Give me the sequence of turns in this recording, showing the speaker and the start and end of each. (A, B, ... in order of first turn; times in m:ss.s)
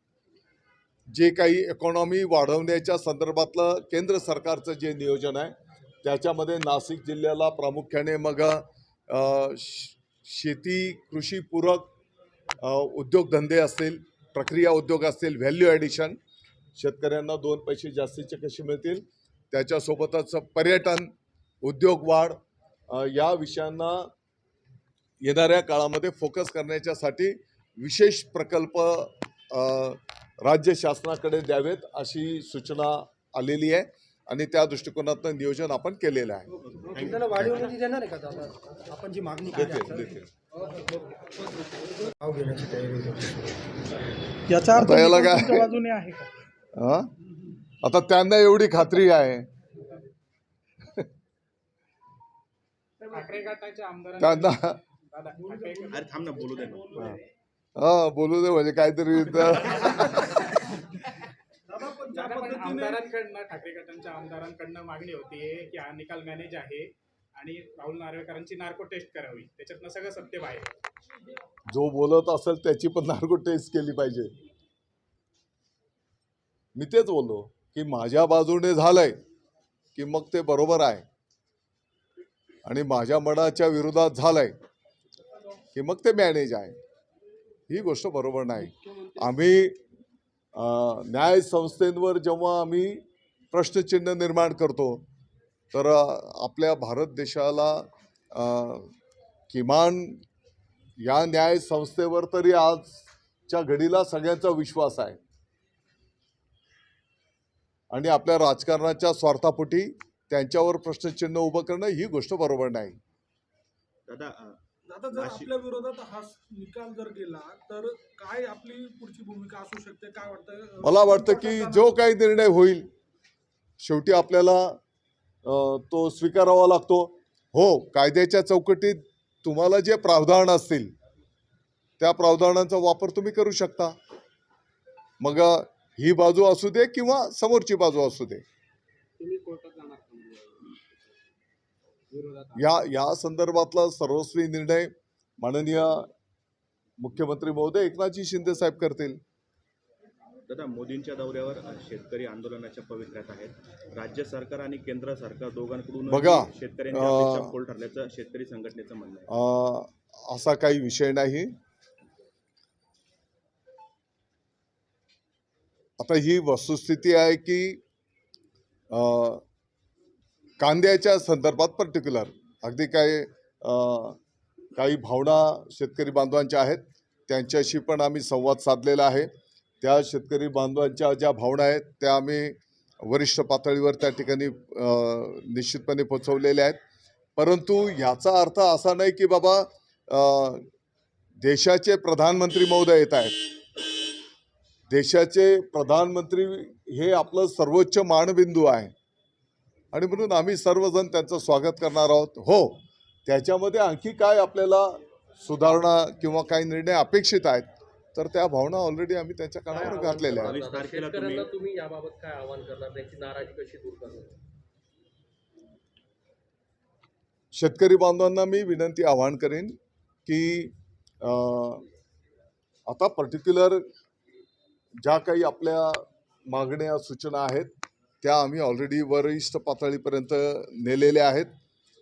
0:01.1-0:11.9 A
0:12.6-0:16.2 A
0:16.8-0:21.1 A
0:21.6-0:22.4 A
0:22.9-0:24.1 A
0:25.2-0:36.5 A
0:36.7-0:37.5 B
0:36.9-0:40.2 C
0:39.6-0:40.3 A
0:40.7-0:41.3 C
0:42.0-0:43.4 C
0:44.5-0:46.3 D
0:44.8-0:45.7 A
0:46.8-0:47.1 A
0:47.8-0:49.5 A
0:53.1-0:54.6 E
0:54.2-0:54.8 A
0:55.1-0:56.1 E
0:55.9-0:57.1 B
0:57.8-1:00.5 A
1:01.7-1:03.1 D
1:02.2-1:10.7 E
1:11.7-1:14.3 A
1:16.8-1:19.2 A
1:20.0-1:21.0 A
1:22.6-1:24.6 A
1:25.8-1:26.8 A
1:27.7-1:29.8 A
1:30.6-1:35.0 A
1:35.7-1:38.9 A
1:39.5-1:40.2 A
1:41.0-1:45.2 A
1:47.9-1:53.0 A
1:54.1-1:54.6 B
1:54.9-2:01.9 D
1:55.1-1:55.5 B
2:00.8-2:02.9 A
2:03.8-2:04.8 A
2:05.4-2:10.9 A
2:12.0-2:14.0 A
2:15.2-2:18.4 A
2:22.6-2:26.1 A
2:27.0-2:29.2 A
2:30.5-2:39.3 B
2:36.1-2:37.5 A
2:39.3-2:41.5 A
2:46.0-2:47.8 A
2:48.9-2:49.4 A
2:50.6-2:54.2 A
2:54.8-2:59.3 A
2:59.8-3:06.8 A
3:07.4-3:10.6 A
3:11.4-3:13.5 A
3:14.9-3:18.9 A
3:19.9-3:30.6 A
3:29.7-3:34.4 F
3:30.4-3:31.5 B
3:37.5-3:41.8 A
3:42.9-3:43.8 A
3:45.0-3:51.5 A